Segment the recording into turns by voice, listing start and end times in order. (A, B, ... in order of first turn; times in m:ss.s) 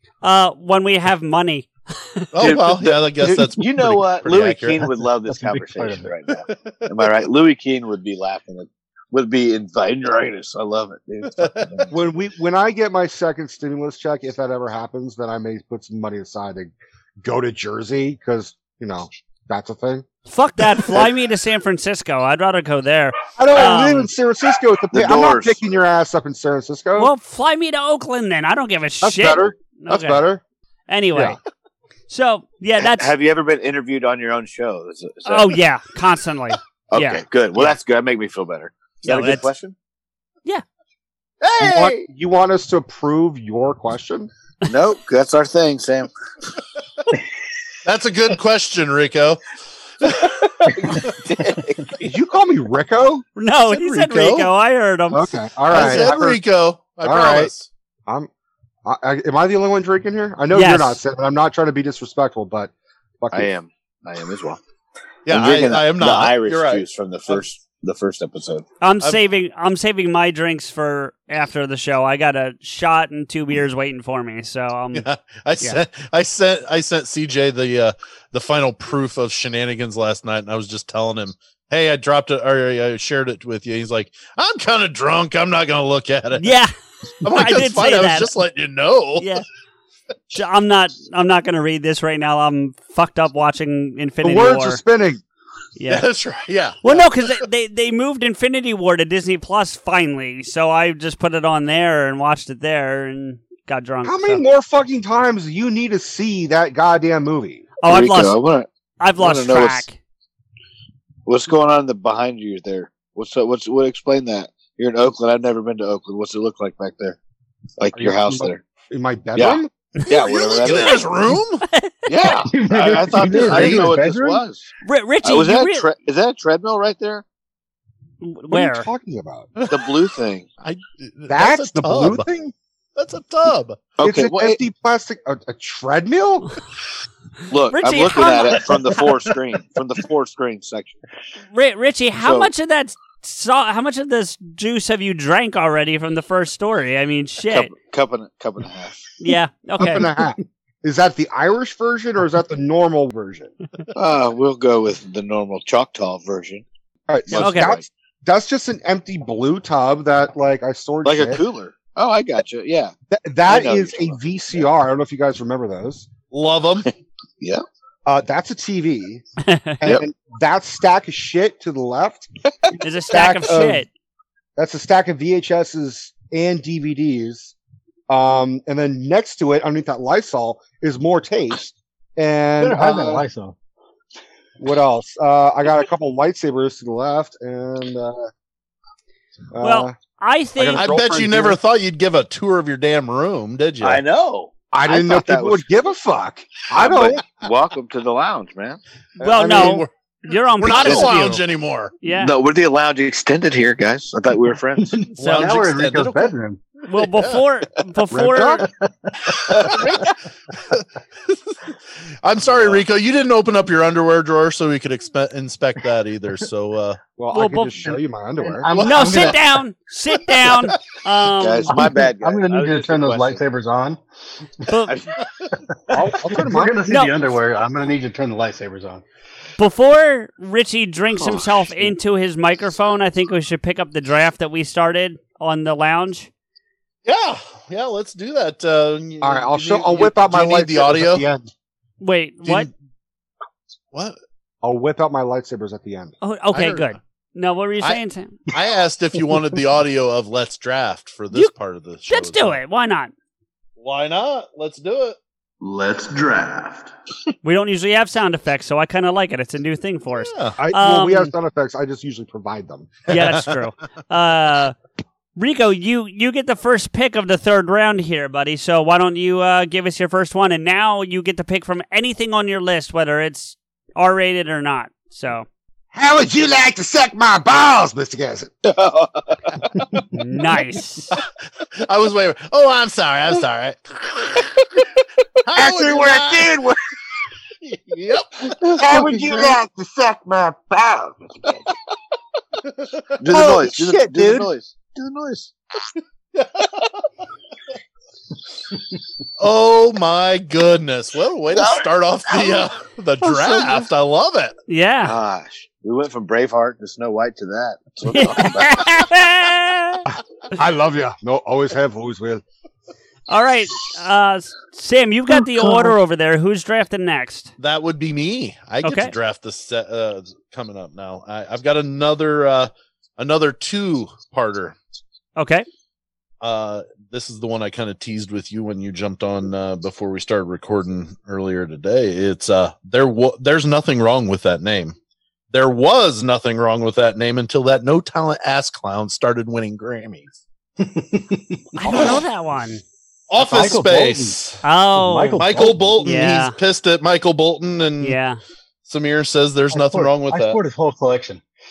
0:00.2-0:02.3 A
0:02.3-0:04.9 B
0:02.4-0:11.9 C
0:05.3-0:06.1 D
0:11.3-0:11.9 B
0:11.9-0:20.0 E
0:20.3-0:24.1 A
0:23.4-0:27.1 E
0:24.9-0:25.6 C
0:27.0-0:30.2 A
0:29.0-0:30.4 E
0:30.9-0:31.4 A
0:32.1-0:33.1 A
0:32.8-0:35.6 C
0:35.2-0:37.2 A
0:36.9-0:39.7 C
0:39.0-0:39.5 A
0:41.4-0:42.0 C
0:41.6-0:44.3 E
0:44.6-0:46.1 C
0:47.8-0:49.4 B
0:50.0-0:50.3 B
0:50.8-0:52.0 C
0:52.0-0:53.2 E
0:53.4-0:56.1 A
0:53.7-0:54.5 B
0:55.1-0:56.4 E
0:55.7-0:57.7 B
0:57.0-0:57.5 E
0:58.8-1:03.5 E
1:00.5-1:01.0 A
1:03.3-1:04.6 C
1:05.3-1:07.4 B
1:05.3-1:08.6 C
1:08.8-1:15.0 A
1:14.9-1:26.5 B
1:26.4-1:26.7 A
1:27.2-1:29.3 B
1:27.2-1:28.3 A
1:29.2-1:29.4 A
1:30.3-1:34.8 A
1:34.2-1:35.2 E
1:35.8-1:36.0 A
1:35.9-1:37.1 B
1:36.8-1:44.4 A
1:44.0-1:47.7 E
1:47.8-1:48.4 A
1:47.8-1:49.8 C
1:49.0-1:50.0 A
1:51.2-1:57.2 C
1:57.8-1:58.6 C
1:58.0-1:59.7 E
1:59.4-2:01.1 C
2:00.2-2:01.6 B
2:01.6-2:02.0 A
2:02.1-2:04.7 C
2:02.5-2:04.4 D
2:03.1-2:03.9 B
2:04.8-2:05.9 A
2:05.2-2:07.2 C
2:08.2-2:08.9 A
2:08.5-2:09.5 E
2:09.6-2:09.9 B
2:09.7-2:10.5 C
2:10.6-2:12.2 B
2:11.3-2:12.5 E
2:13.0-2:13.9 B
2:14.0-2:14.6 C
2:14.0-2:16.5 E
2:17.5-2:21.0 C
2:17.7-2:19.0 A
2:21.5-2:27.7 A
2:22.2-2:22.5 C
2:27.5-2:29.1 C
2:29.2-2:30.0 A
2:29.8-2:33.5 E
2:33.9-2:36.6 C
2:37.1-2:41.4 E
2:37.3-2:37.8 C
2:37.3-2:37.8 A
2:41.0-2:42.9 C
2:43.1-2:46.1 E
2:43.4-2:44.6 C
2:46.3-2:46.9 B
2:48.0-2:49.2 E
2:49.4-2:49.8 A
2:49.8-2:52.3 E
2:52.8-2:53.9 A
2:53.1-2:53.8 E
2:54.6-2:57.5 E
2:58.1-3:03.2 E
3:02.6-3:03.5 D
3:04.6-3:08.3 E
3:09.5-3:09.9 E
3:09.6-3:10.9 A
3:10.5-3:11.6 E
3:10.7-3:14.0 B
3:13.8-3:15.6 C
3:14.7-3:17.2 E
3:16.7-3:18.8 C
3:19.2-3:19.8 E
3:19.2-3:21.4 A
3:19.3-3:19.9 B
3:20.6-3:21.9 B
3:22.0-3:22.3 A
3:22.2-3:25.0 C
3:24.8-3:26.6 D
3:25.1-3:25.5 A
3:25.2-3:26.3 B
3:26.9-3:28.6 A
3:26.9-3:27.4 B
3:28.1-3:28.7 E
3:29.6-3:30.2 B
3:30.7-3:37.0 B
3:32.6-3:32.8 C
3:37.2-3:38.7 E
3:37.3-3:38.0 A
3:38.5-3:39.4 D
3:38.7-3:39.3 B
3:38.8-3:41.8 A
3:41.4-3:43.4 C
3:41.7-3:44.0 D
3:44.9-3:45.2 C
3:45.9-3:46.8 E
3:46.2-3:49.0 D
3:46.9-3:47.2 A
3:49.6-3:56.3 A
3:51.2-3:51.4 C
3:57.0-4:01.2 B
3:59.2-4:01.5 E
4:02.0-4:02.7 A
4:02.4-4:02.7 B
4:04.6-4:06.1 E
4:06.2-4:08.4 A
4:06.5-4:07.0 B
4:07.8-4:12.6 B
4:12.1-4:13.1 A
4:13.8-4:15.2 B
4:15.6-4:16.9 C
4:17.4-4:21.3 A
4:20.2-4:20.6 B
4:20.6-4:23.0 E
4:23.1-4:24.7 A
4:23.1-4:23.5 B
4:25.4-4:35.5 A
4:35.9-4:38.5 E
4:38.6-4:39.4 C
4:40.1-4:41.1 A
4:41.8-4:44.8 B
4:45.4-4:46.6 B
4:45.5-4:46.8 E
4:47.6-4:49.0 B
4:48.8-4:51.1 E
4:53.2-4:55.5 C
4:53.3-4:54.5 E
4:56.3-4:56.7 B
4:59.4-5:04.5 B
5:01.5-5:02.7 C
5:04.7-5:05.1 A
5:05.0-5:09.1 C
5:08.1-5:10.0 A
5:10.1-5:12.4 E
5:13.3-5:17.5 A
5:15.5-5:15.9 D
5:17.6-5:24.8 B
5:18.8-5:19.1 A
5:25.4-5:25.6 A
5:26.4-5:35.0 B
5:35.5-5:40.3 B
5:40.8-5:42.2 D
5:41.8-5:42.8 A
5:43.3-5:44.6 B
5:43.4-5:44.4 D
5:44.6-5:45.4 A
5:44.9-5:46.2 D
5:45.4-5:48.2 B
5:46.0-5:46.5 A
5:48.0-5:48.4 A
5:48.8-5:50.6 B
5:49.7-5:51.4 D